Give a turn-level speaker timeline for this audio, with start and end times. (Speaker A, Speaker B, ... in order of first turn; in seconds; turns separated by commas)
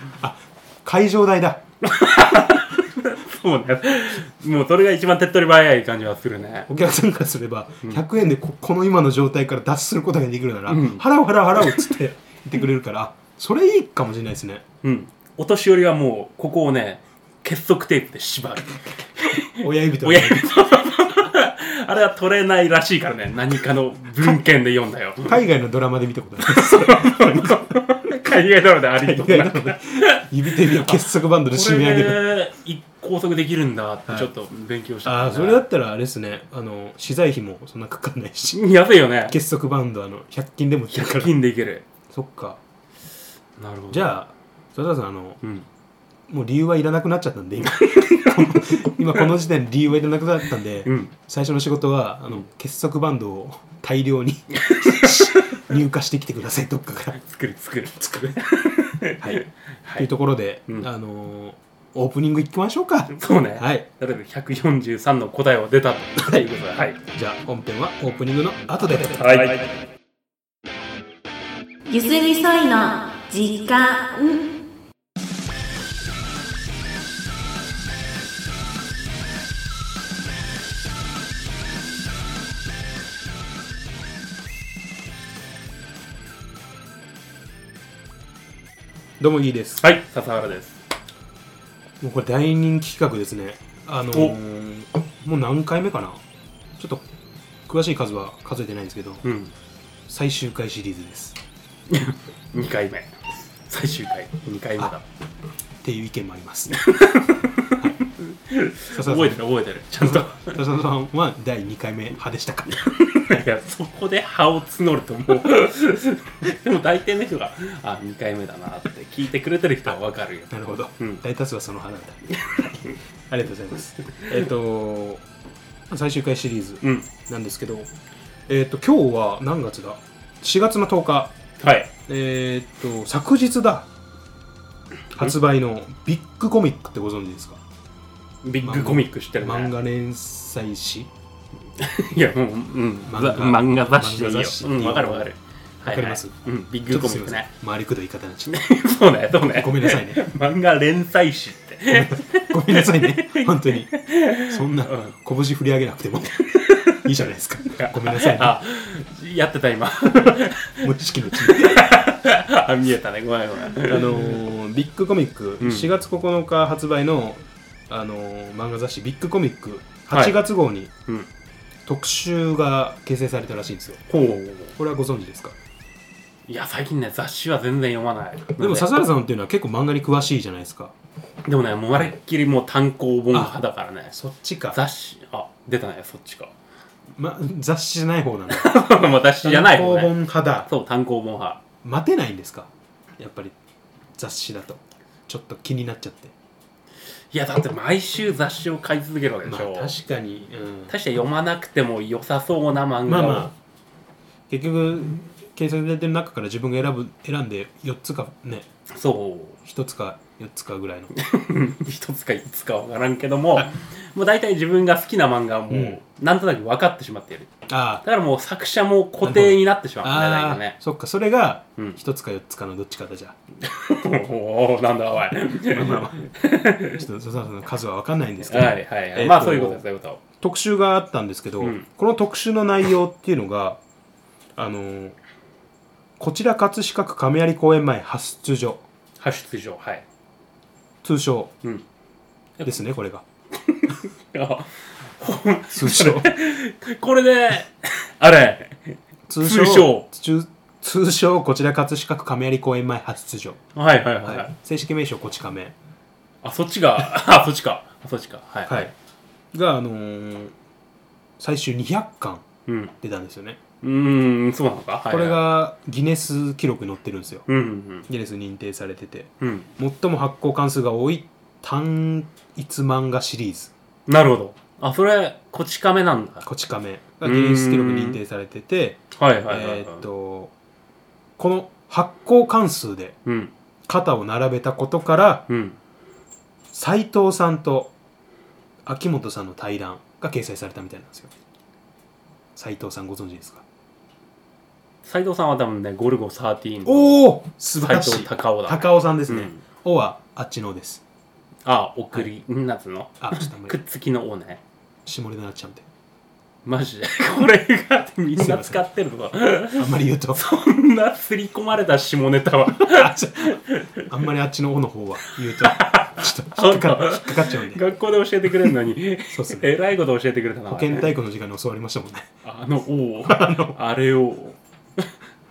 Speaker A: 0.2-1.6, Speaker B: 1.8-6.7, Speaker A: 6.7-14.6, Speaker B: 10.7-11.1, Speaker B: 11.6-11.9, Speaker B: 14.8-25.4, Speaker A: 19.6-20.5, Speaker A: 25.2-27.6, Speaker B: 26.4-35.6, Speaker A: 29.0-32.3, Speaker A: 35.0-38.6, Speaker B: 38.5-39.4, Speaker A: 39.3-41.4, Speaker B: 40.9-41.9, Speaker A: 42.1-42.6, Speaker B: 43.6-44.2, Speaker A: 43.9-45.4, Speaker B: 45.4-45.7, Speaker A: 46.3-57.2, Speaker B: 47.7-49.3, Speaker B: 50.9-51.1, Speaker B: 54.6-55.6, Speaker B: 57.1-60.1, Speaker A: 58.0-58.4, Speaker A: 59.2-63.9, Speaker B: 63.1-67.0, Speaker A: 67.1-69.6, Speaker B: 69.0-69.8, Speaker C: 71.9-74.6, Speaker A: 89.2-89.9, Speaker B: 89.8-90.8, Speaker A: 92.0-96.2, Speaker A: 96.8-97.1, Speaker A: 97.7-99.2, Speaker B: 99.2-99.5, Speaker A: 100.1-101.4, Speaker B: 101.9-103.2, Speaker B: 103.7-105.0, Speaker A: 105.8-106.9, Speaker B: 106.7-110.6, Speaker A: 108.9-112.8, Speaker B: 112.7-121.2, Speaker A: 120.5-125.2, Speaker B: 122.5-122.7, Speaker A: 125.9-127.9, Speaker B: 126.8-127.1, Speaker A: 128.5-131.3, Speaker B: 131.6-131.9, Speaker A: 132.1-133.9, Speaker A: 135.1-137.6, Speaker B: 138.4-139.7, Speaker A: 138.6-141.1, Speaker B: 141.8-147.5, Speaker A: 143.1-145.3, Speaker A: 145.8-148.6, Speaker B: 148.5-155.2, Speaker A: 149.5-150.2, Speaker A: 151.9-153.9, Speaker A: 154.5-158.6, Speaker B: 156.5-157.1, Speaker B: 157.7-164.4, Speaker A: 160.3-161.9, Speaker A: 163.8-170.9, Speaker B: 165.6-165.9, Speaker B: 170.1-170.4, Speaker A: 171.9-174.0, Speaker B: 174.1-174.8, Speaker A: 174.8-175.6, Speaker B: 176.5-178.9, Speaker A: 178.6-180.9, Speaker B: 181.5-184.1, Speaker A: 184.1-184.8, Speaker B: 184.7-186.5, Speaker A: 187.2-188.7, Speaker B: 188.5-191.6, Speaker A: 189.4-190.7, Speaker A: 191.8-193.6, Speaker A: 194.2-196.3, Speaker B: 197.3-199.9, Speaker A: 199.4-200.9, Speaker B: 200.9-203.5, Speaker A: 203.1-203.5, Speaker A: 204.5-208.7, Speaker B: 208.9-209.6, Speaker A: 209.7-211.1, Speaker B: 211.1-217.5, Speaker A: 215.7-216.0, Speaker A: 217.7-218.0, Speaker B: 218.0-220.8, Speaker A: 219.2-223.4, Speaker B: 223.6-227.0, Speaker A: 225.7-226.3, Speaker A: 226.9-229.8, Speaker B: 228.4-230.2, Speaker A: 230.4-233.8, Speaker B: 231.6-231.9, Speaker A: 234.6-235.2, Speaker A: 236.2-238.8, Speaker B: 239.2-240.1, Speaker A: 241.0-241.5, Speaker A: 242.6-243.2, Speaker B: 243.6-250.1, Speaker A: 245.7-246.3, Speaker A: 249.3-253.6, Speaker B: 253.8-254.5, Speaker A: 254.2-255.8, Speaker B: 256.4-258.9, Speaker A: 258.7-258.9, Speaker A: 259.5-260.5, Speaker A: 261.4-262.4, Speaker B: 262.7-262.9, Speaker A: 263.0-263.6, Speaker B: 263.8-265.4, Speaker A: 265.1-267.4, Speaker B: 267.5-268.1, Speaker A: 268.1-273.7, Speaker B: 269.4-269.7, Speaker B: 274.1-276.5, Speaker A: 276.4-280.5, Speaker B: 277.2-278.2, Speaker B: 279.1-280.1, Speaker A: 281.4-283.2, Speaker B: 283.3-283.5, Speaker A: 283.9-285.5, Speaker B: 285.5-285.8, Speaker A: 286.7-287.9, Speaker A: 288.9-291.3, Speaker A: 292.6-293.6, Speaker B: 295.0-297.2, Speaker A: 296.9-301.0, Speaker B: 297.8-299.6, Speaker B: 301.6-304.6, Speaker A: 303.2-303.8, Speaker A: 305.1-305.9, Speaker B: 306.6-314.1, Speaker A: 308.4-308.8, Speaker A: 309.8-310.4, Speaker A: 312.8-317.8, Speaker B: 315.5-321.1, Speaker A: 319.3-319.7, Speaker A: 320.7-322.3, Speaker B: 322.4-325.1, Speaker A: 323.3-323.8